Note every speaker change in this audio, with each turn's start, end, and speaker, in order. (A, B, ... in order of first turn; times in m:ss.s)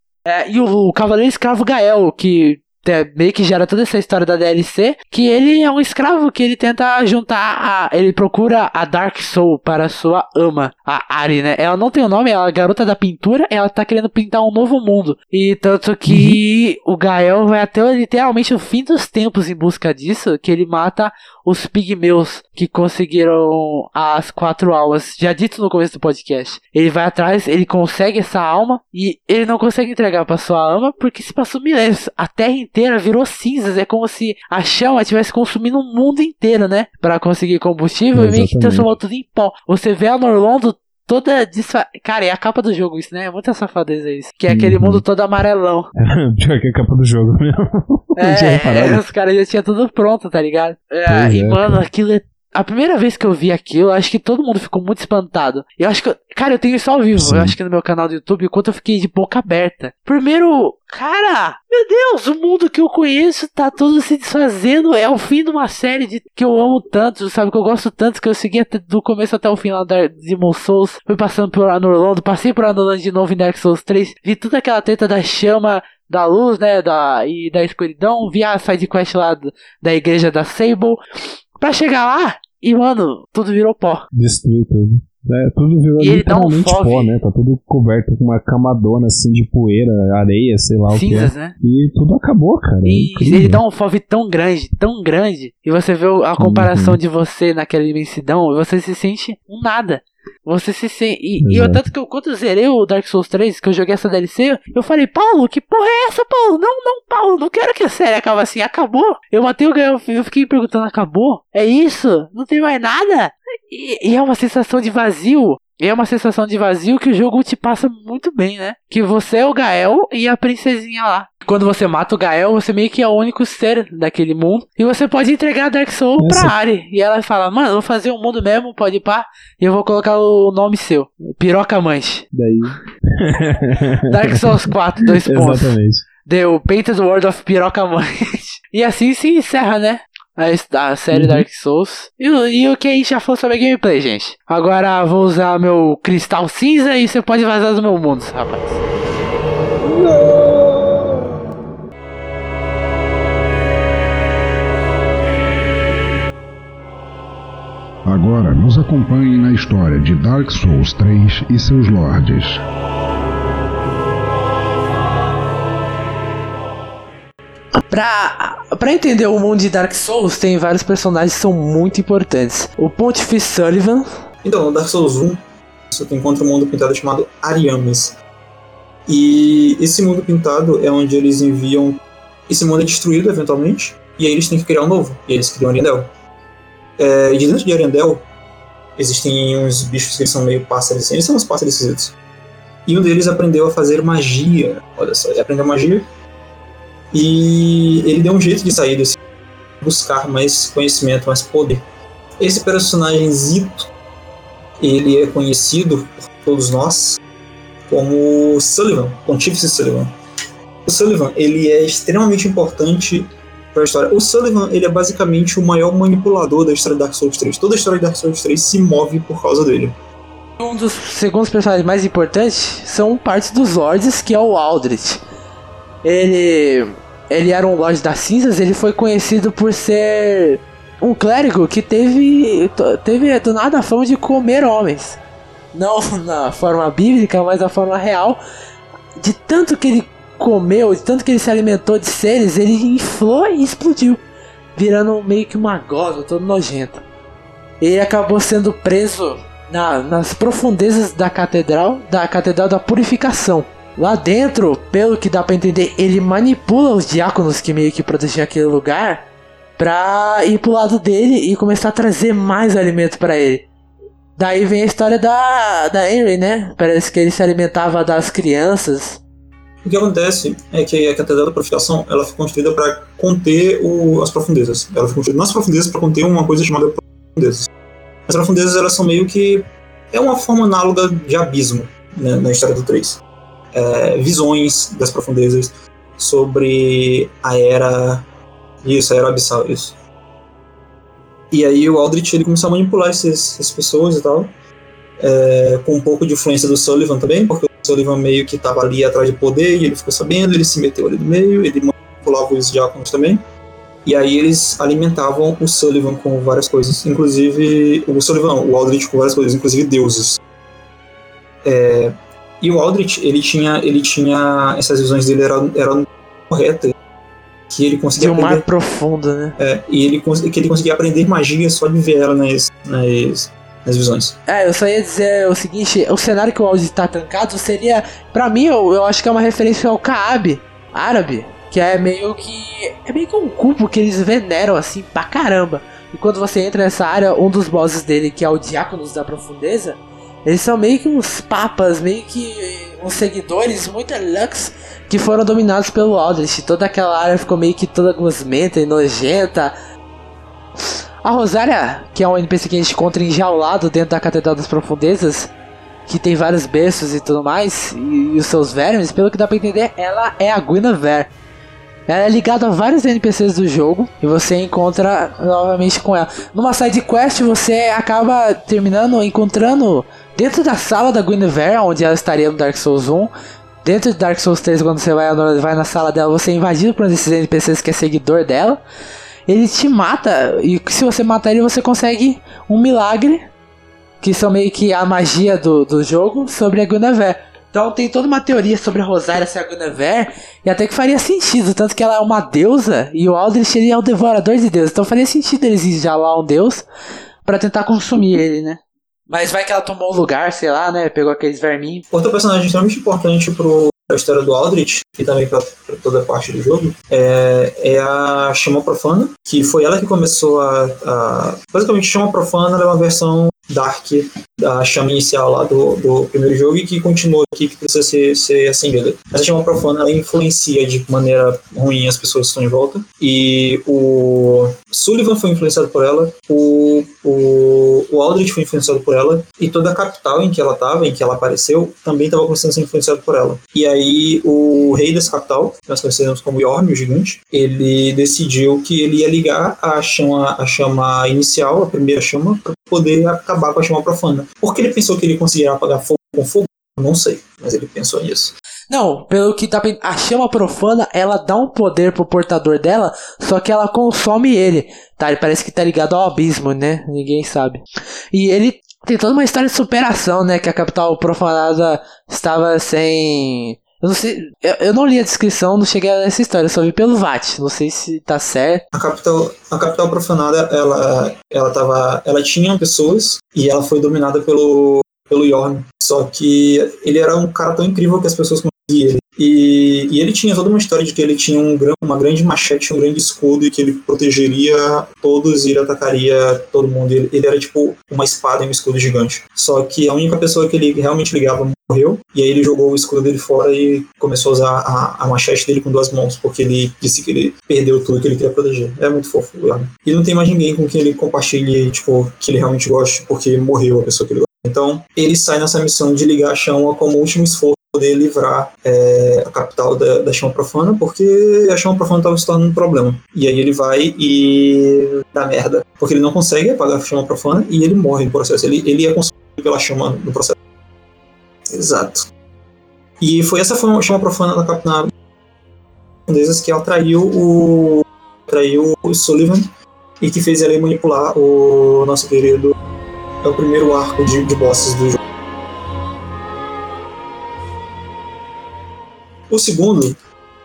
0:00.2-0:45.9 A
0:16.1-0:16.4 B
0:38.1-0:38.9 B
0:44.5-0:45.0 B
0:46.0-0:49.0 B
0:48.2-1:21.0 A
0:51.1-0:51.8 B
0:57.2-0:57.5 B
1:21.6-1:24.1 A
1:24.1-1:33.6 B
1:26.0-1:27.2 A
1:30.9-1:31.5 A
1:32.8-2:12.3 A
1:36.4-1:37.0 B
1:41.4-1:41.8 B
2:06.2-2:06.5 B
2:12.3-2:14.7 B
2:14.1-2:28.8 A
2:15.2-2:16.0 B
2:21.1-2:21.4 B
2:29.8-2:31.0 B
2:38.0-2:42.6 C
2:47.9-2:54.1 A
2:54.4-2:58.2 D
2:59.1-3:06.1 D
3:07.0-3:08.2 D
3:09.0-3:12.1 D
3:12.8-3:16.1 D
3:17.1-3:19.2 D
3:19.8-3:21.8 D
3:22.4-3:23.9 D
3:24.8-3:27.2 D
3:27.9-3:30.1 D
3:30.8-3:39.9 D
3:40.6-3:45.2 A
3:46.0-3:55.2 A
3:55.7-3:58.4 A
3:59.2-4:04.2 A
4:04.8-4:07.0 A
4:07.8-4:19.2 A
4:19.8-4:23.6 A
4:24.4-4:29.2 A
4:29.8-4:37.7 D
4:38.3-4:43.2 D
4:43.7-4:48.2 D
4:48.8-4:50.0 D
4:51.5-4:54.5 D
4:55.2-5:03.4 D
5:04.0-5:10.4 D
5:11.6-5:16.9 D
5:17.7-5:18.6 D
5:18.2-5:19.6 A
5:19.6-5:24.4 D
5:24.5-5:49.7 A
5:50.8-5:55.5 A
5:56.1-6:01.3 A
6:02.1-6:13.3 A
6:13.8-6:18.8 A
6:19.5-6:23.4 A
6:24.2-6:36.8 A
6:37.4-6:42.0 A
6:42.1-7:28.5 D
7:28.9-7:37.8 A
7:38.3-7:48.8 A
7:48.9-8:40.6 D
8:41.7-8:42.3 D
8:43.2-8:45.1 D
8:46.3-8:49.6 D
8:50.2-8:52.8 D
8:53.4-8:55.2 D
8:59.5-9:00.2 D